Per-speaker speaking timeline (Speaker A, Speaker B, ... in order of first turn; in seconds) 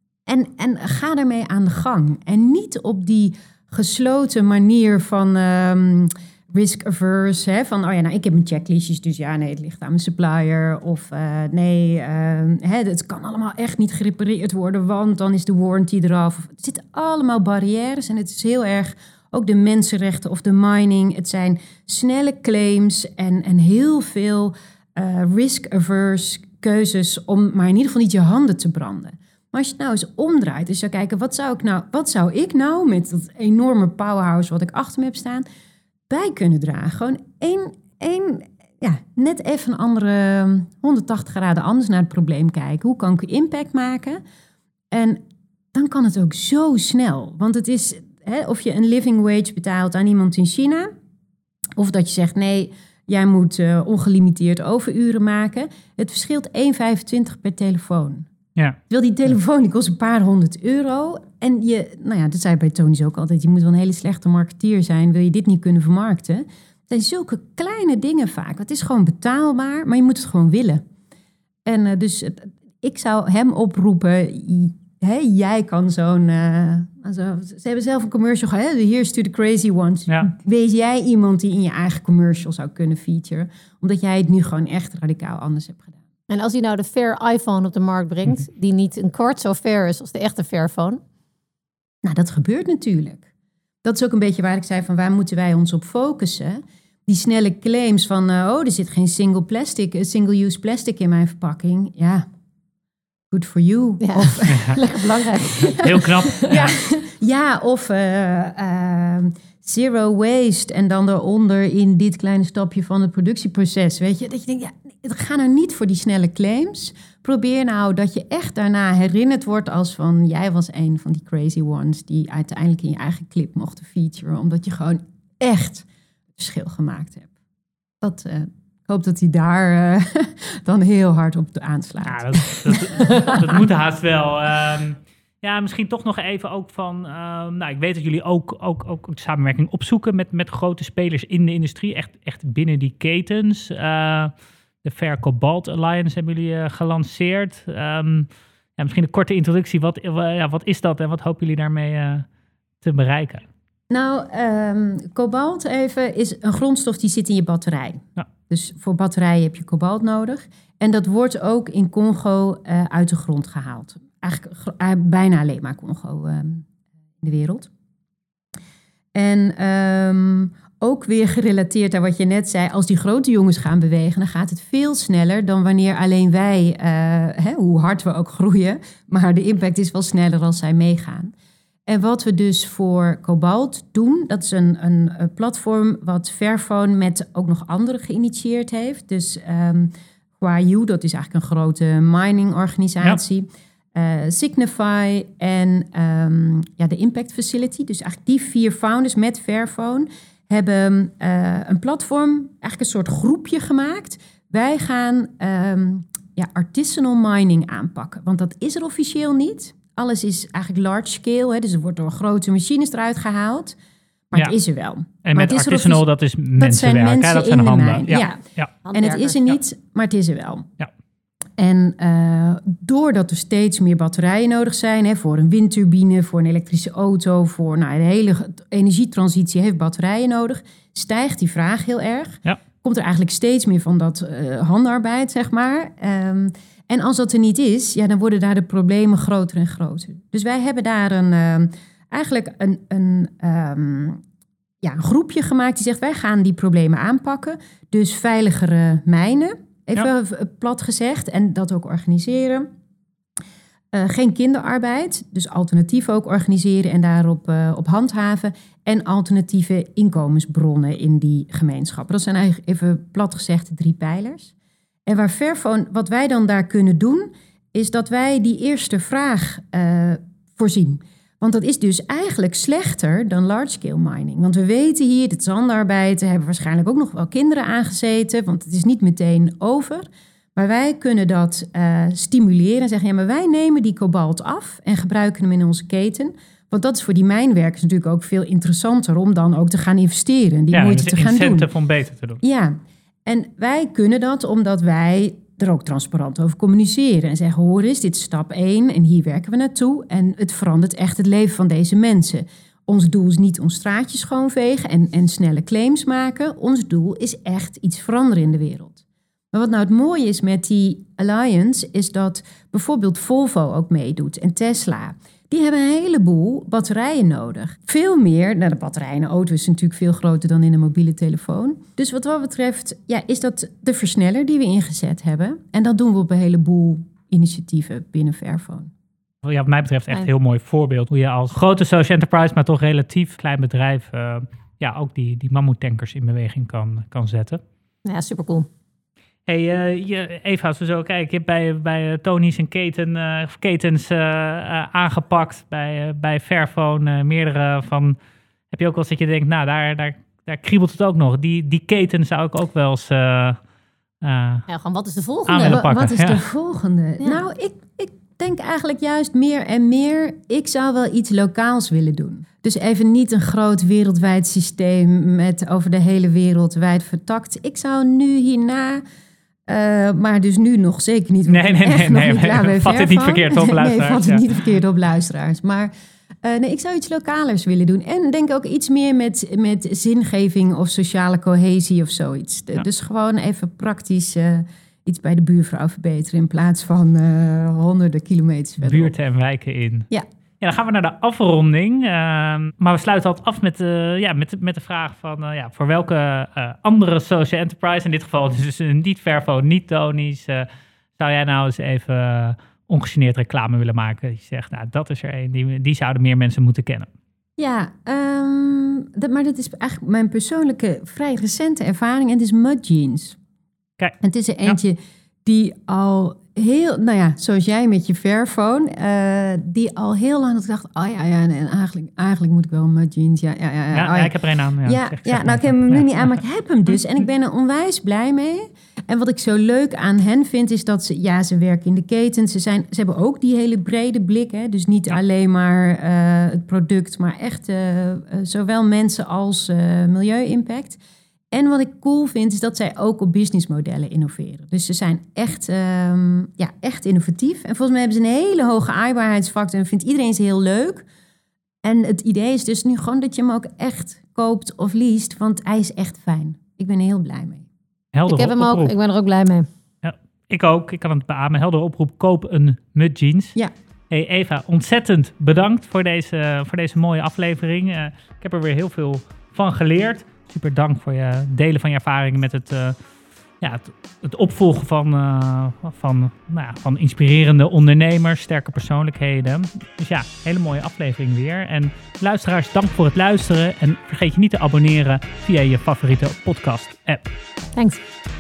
Speaker A: 0.3-35.5, 36.1-44.2, 44.9-45.2, 45.7-50.9, 51.8-58.3, 58.9-70.8, 71.7-86.0, 92.0-93.3, 93.8-102.3, 103.3-104.8, 105.6-127.3, 128.0-133.4, 153.9-166.7, 167.2-167.7, 169.1-181.3, 181.9-213.8, 214.3-216.1, 216.6-218.4, 218.9-220.7, 221.6-244.2, 244.8-252.7, 253.9-264.5, 265.1-291.7, 292.4-328.9, 355.6-369.0, 369.7-375.9, 376.4-389.1, 407.6-413.4, 414.2-441.0, 441.5-451.1, 451.8-457.7
Speaker B: 86.3-91.0, 104.0-106.4, 218.8-219.4, 338.1-338.7, 354.7-355.8, 458.3-459.7, 487.8-488.0
Speaker C: 104.5-104.8, 105.7-106.8, 132.0-144.3, 144.8-152.3, 152.8-153.4, 215.2-218.7, 290.7-292.4, 329.4-337.6, 339.5-348.2, 348.7-353.6, 354.2-354.6, 355.5-356.4, 371.5-374.4, 388.8-390.1, 390.6-400.7, 401.2-407.1, 414.0-414.8, 423.9-426.4, 458.1-458.9, 460.0-463.6, 464.1-473.0, 473.6-487.3